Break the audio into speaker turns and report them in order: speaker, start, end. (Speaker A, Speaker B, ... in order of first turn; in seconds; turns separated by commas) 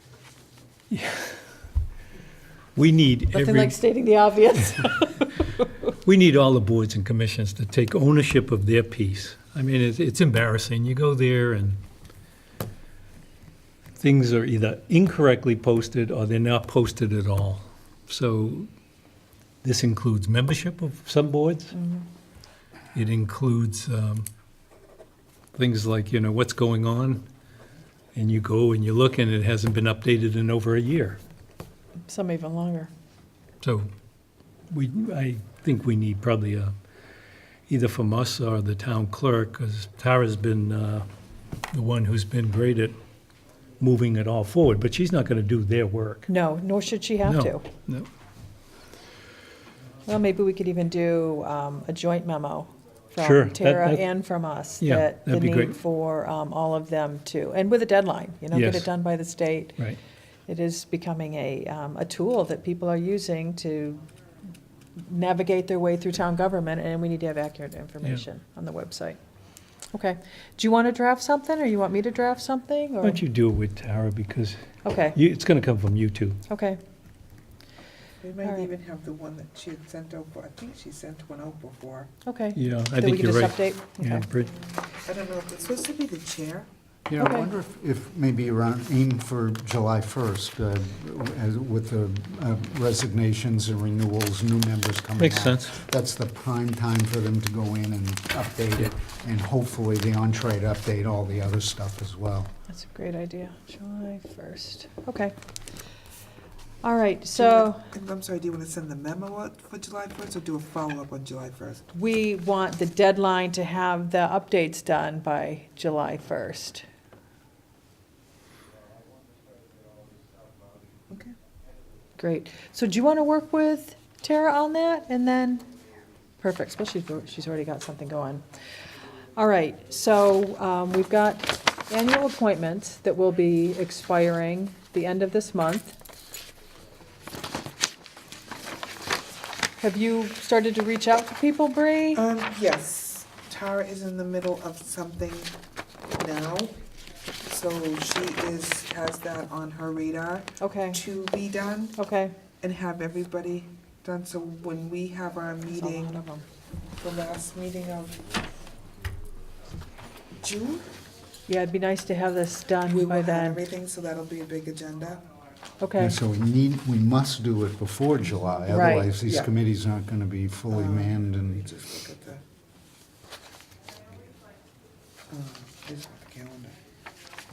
Speaker A: 0.9-1.3, Speaker A: 2.8-3.8, Speaker B: 3.3-5.7, Speaker A: 6.0-11.8, Speaker A: 14.0-18.7, Speaker A: 19.6-21.8, Speaker B: 21.8-22.1, Speaker A: 22.9-24.3, Speaker A: 25.6-27.2, Speaker A: 28.1-31.2, Speaker B: 32.1-32.9, Speaker A: 33.6-33.9, Speaker A: 34.7-36.7, Speaker A: 37.7-41.1, Speaker A: 41.7-43.0, Speaker A: 43.8-46.3, Speaker B: 46.3-47.7, Speaker A: 47.2-48.1, Speaker B: 50.1-59.8, Speaker A: 53.2-54.0, Speaker A: 54.8-55.8, Speaker A: 58.5-58.9, Speaker B: 60.5-64.0, Speaker B: 65.0-69.2, Speaker B: 69.9-73.2, Speaker A: 73.0-74.6, Speaker B: 74.8-75.2, Speaker A: 75.1-76.4, Speaker B: 76.5-76.8, Speaker C: 78.2-82.1, Speaker B: 78.4-78.7, Speaker B: 82.2-84.3, Speaker A: 82.5-84.6, Speaker C: 84.9-86.7, Speaker D: 87.1-102.5, Speaker B: 87.2-87.5, Speaker A: 95.2-95.8, Speaker B: 102.7-105.3, Speaker B: 106.8-107.8, Speaker C: 107.3-111.9, Speaker B: 111.9-116.8, Speaker B: 122.2-125.7, Speaker B: 126.4-128.4, Speaker B: 129.4-136.0, Speaker B: 139.8-142.2, Speaker C: 142.1-145.6, Speaker C: 146.1-146.8, Speaker C: 147.4-152.0, Speaker B: 150.6-151.0, Speaker B: 152.0-152.3, Speaker C: 152.6-156.2, Speaker B: 155.7-156.4, Speaker C: 157.0-158.3, Speaker C: 160.4-160.9, Speaker B: 161.5-163.6, Speaker C: 162.9-165.2, Speaker B: 165.8-166.2, Speaker D: 166.0-171.6, Speaker B: 168.7-169.1, Speaker C: 169.2-169.5, Speaker C: 170.7-172.4, Speaker C: 175.3-176.8